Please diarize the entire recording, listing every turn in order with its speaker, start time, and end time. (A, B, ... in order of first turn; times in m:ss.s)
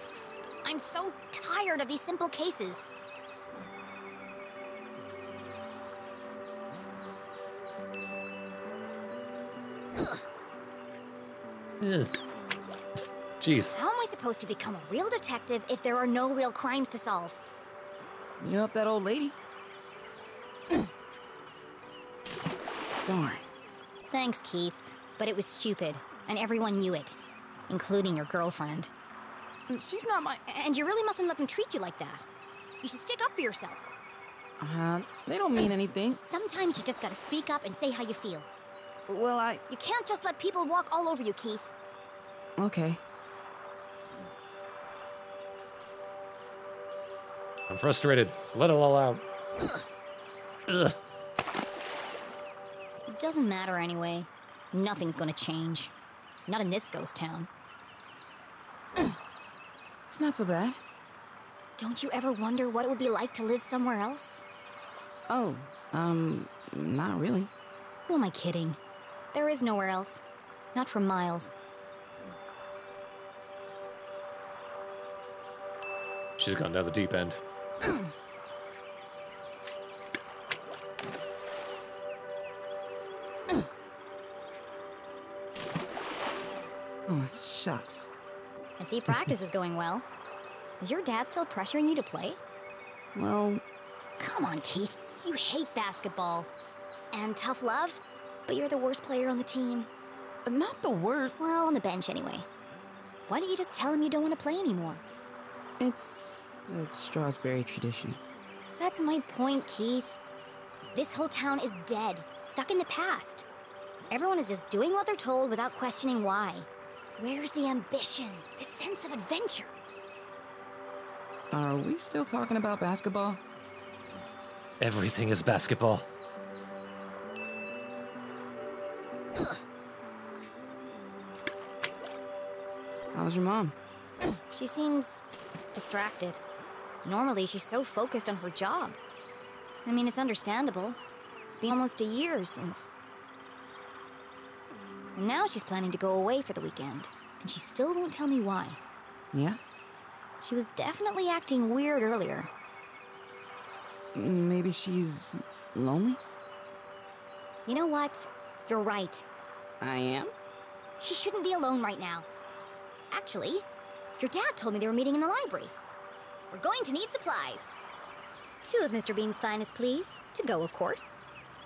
0:00.6-0:02.9 A
0:11.8-0:12.2 B
0:13.4-0:13.7 B
0:13.7-0:17.4 A
0:18.4-0:19.4 C
0:23.0-0:23.4 C
0:24.1-0:27.2 A
0:27.7-0:28.9 A
0:29.7-0:30.4 C
0:30.5-0:32.3 A
0:32.8-0:33.9 A
0:34.6-0:36.2 C
0:36.2-0:38.5 A
0:39.1-0:39.6 C
0:39.7-0:41.7 A
0:42.6-0:43.0 C
0:47.7-0:49.2 B
0:50.7-0:51.0 B
0:53.1-0:55.9 A
0:56.5-0:57.5 A
1:00.1-1:00.8 C
1:01.8-1:04.4 A
1:05.3-1:07.5 C
1:08.1-1:08.8 A
1:09.3-1:10.2 A
1:10.7-1:11.5 A
1:16.4-1:17.4 B
1:27.1-1:28.1 C
1:28.8-1:30.0 A
1:30.8-1:32.4 A
1:33.1-1:33.6 C
1:34.2-1:36.5 A
1:37.1-1:39.9 A
1:40.4-1:41.3 C
1:41.4-1:42.5 A
1:43.3-1:45.0 A
1:45.8-1:48.2 C
1:48.8-1:50.2 A
1:50.9-1:53.4 A
1:54.1-1:56.7 A
1:57.2-1:59.8 A
2:01.5-2:03.4 C
2:04.8-2:06.0 B
2:13.1-2:13.7 C
2:14.5-2:15.2 A
2:15.7-2:16.4 A
2:17.0-2:19.0 A
2:19.8-2:22.9 A
2:25.2-2:28.8 A
2:29.3-2:29.6 C
2:30.4-2:32.5 A
2:34.1-2:36.2 C
2:37.7-2:39.2 A
2:39.8-2:40.3 C
2:41.0-2:42.3 A
2:43.1-2:43.6 A
2:44.2-2:45.7 A
2:46.5-2:47.8 A
2:48.6-2:51.2 A